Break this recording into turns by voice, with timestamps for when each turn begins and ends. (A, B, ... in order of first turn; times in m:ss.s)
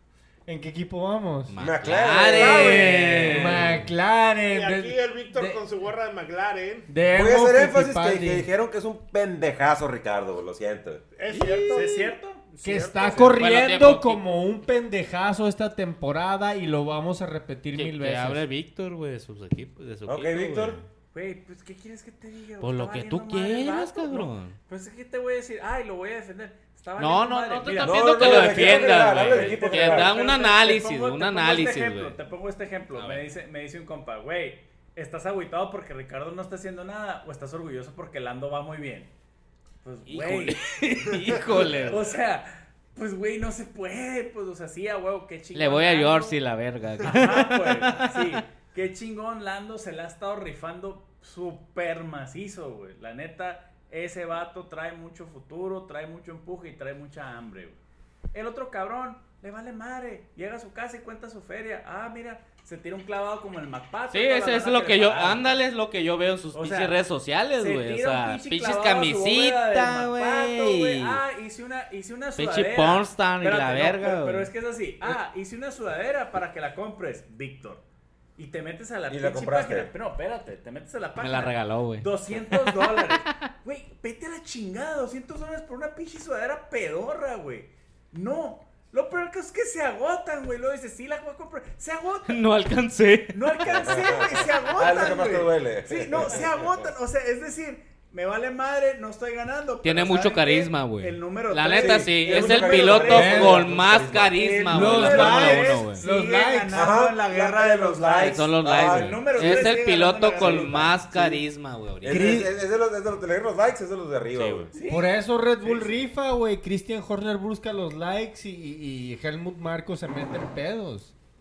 0:00.5-0:01.6 A
0:01.5-0:03.9 B
0:01.6-0:03.6 C
0:02.3-0:03.4 D
0:03.0-0:05.6 A
0:04.5-0:06.9 D
0:06.9-0:08.5 A
0:07.1-0:11.0 C
0:11.2-0:12.1 D
0:11.3-0:11.9 A
0:11.7-0:13.4 E
0:12.6-0:18.5 A
0:12.7-0:13.3 D
0:13.2-0:14.2 B
0:17.7-0:20.8 B
0:20.1-0:20.8 C
0:21.1-0:39.1 E
0:22.6-0:24.6 B
0:27.0-0:32.2 B
0:27.8-0:30.1 C
0:33.0-0:33.2 B
0:39.8-0:40.6 E
0:40.1-0:42.1 B
0:41.3-0:41.8 D
0:41.4-0:46.4 E
0:45.5-0:48.4 B
0:47.0-0:57.8 E
0:58.3-1:05.5 E
1:04.1-1:11.2 B
1:06.5-1:07.0 E
1:07.6-1:17.8 E
1:12.4-1:14.5 B
1:18.4-1:32.4 E
1:19.1-1:19.9 C
1:21.2-1:23.5 B
1:32.3-1:34.0 B
1:33.3-1:51.0 E
1:33.9-1:36.9 C
1:39.8-1:46.0 B
1:41.7-1:44.4 C
1:43.1-1:43.6 A
1:44.7-1:46.8 A
1:46.7-1:49.7 C
1:48.2-1:52.4 B
1:50.4-1:51.4 C
1:52.0-1:54.7 C
1:52.1-1:52.5 A
1:54.3-1:54.7 B
1:54.7-1:56.0 E
1:54.9-2:01.1 A